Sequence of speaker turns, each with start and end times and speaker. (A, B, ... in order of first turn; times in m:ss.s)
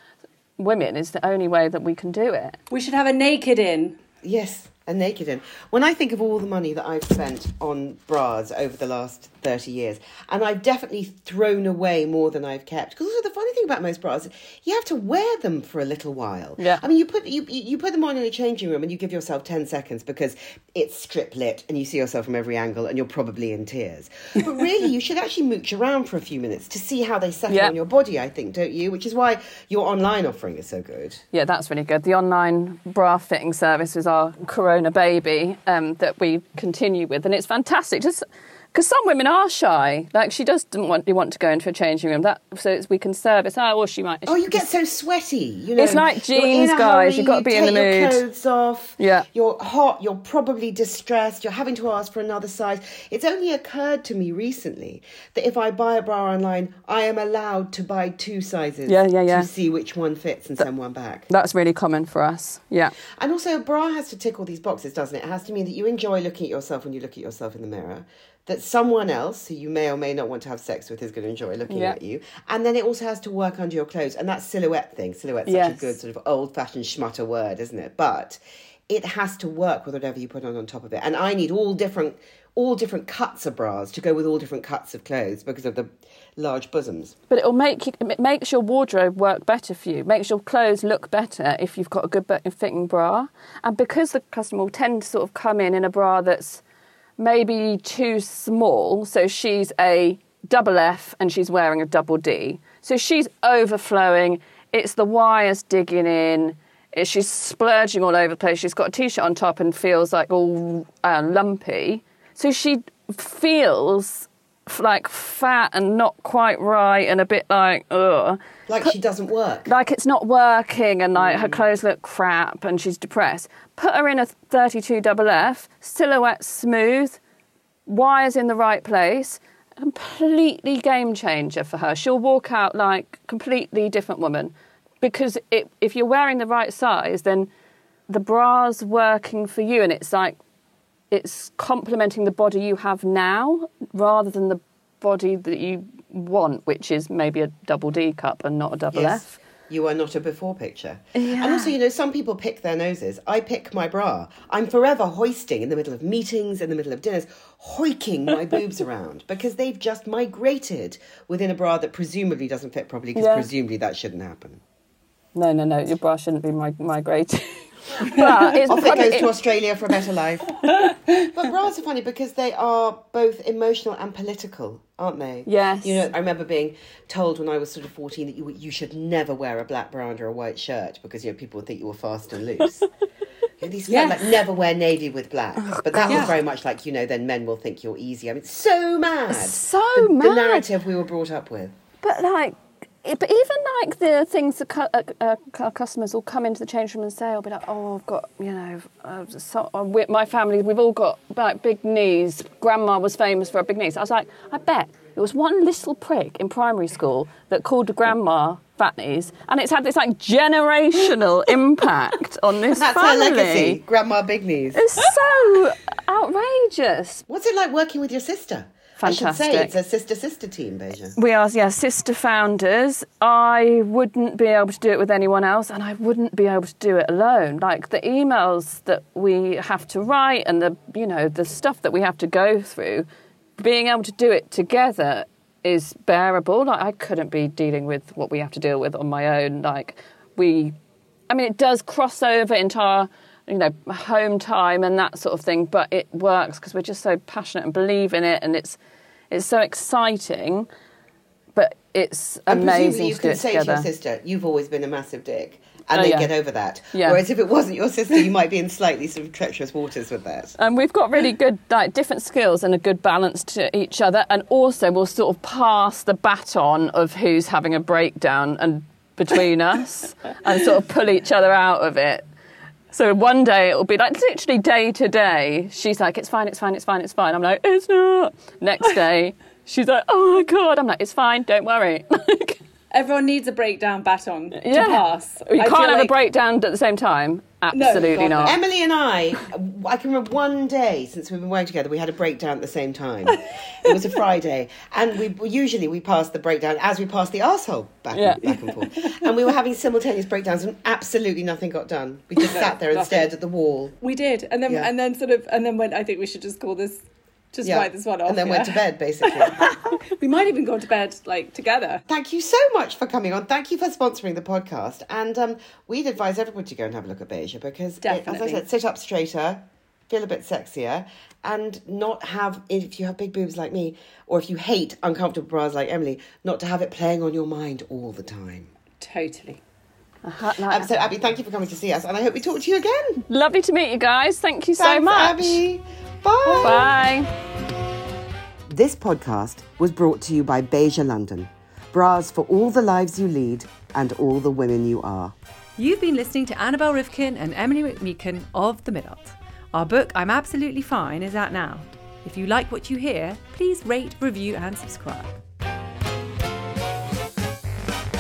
0:00.6-0:02.6 A
0:02.7-0:04.0 B
0:04.2-0:31.2 C
0:27.5-0:27.7 A
0:31.3-0:44.6 A
0:44.3-1:01.3 C
0:45.8-0:48.2 A
0:49.0-0:49.3 A
0:58.9-0:59.5 A
1:01.3-1:03.0 A
1:03.2-1:27.2 C
1:11.7-1:12.0 A
1:15.5-1:15.8 A
1:27.3-1:36.6 A
1:37.2-1:58.9 A
1:58.7-1:59.7 C
1:59.7-2:07.2 A
2:01.2-2:01.6 C
2:07.9-2:17.5 A
2:18.1-2:20.4 A
2:21.1-2:29.4 A
2:28.9-2:44.6 C
2:31.2-2:31.7 A
2:43.2-2:43.5 A
2:45.4-2:49.4 A
2:48.2-2:48.6 B
2:48.7-2:50.6 C
2:51.3-3:02.9 C
2:55.5-2:56.1 A
3:03.6-3:11.8 C
3:03.9-3:04.3 B
3:06.0-3:06.3 A
3:06.0-3:06.4 B
3:09.3-3:10.7 A
3:12.0-3:33.8 A
3:32.7-3:34.8 C
3:34.7-3:37.2 A
3:37.3-3:41.2 C
3:39.0-3:39.7 A
3:41.2-3:53.1 A
3:53.6-4:00.8 A
4:01.3-4:08.8 A
4:09.3-4:10.7 A
4:11.6-4:13.9 A
4:12.5-4:20.6 C
4:15.9-4:16.3 A
4:16.9-4:17.2 A
4:20.6-4:32.2 A
4:32.9-4:42.6 A
4:42.9-4:46.1 B
4:44.6-4:48.6 A
4:47.7-4:48.6 B
4:48.4-5:04.0 C
4:58.1-4:58.5 A
5:02.4-5:03.3 B
5:04.0-5:12.0 B
5:07.6-5:09.8 C
5:12.1-5:28.7 C
5:18.0-5:18.6 B
5:29.0-5:29.6 B
5:30.2-5:30.9 A
5:30.7-5:33.2 C
5:33.3-5:35.6 A
5:34.8-5:36.9 C
5:36.5-5:36.8 B
5:36.6-5:37.3 A
5:38.7-5:45.4 C
5:45.8-5:55.4 D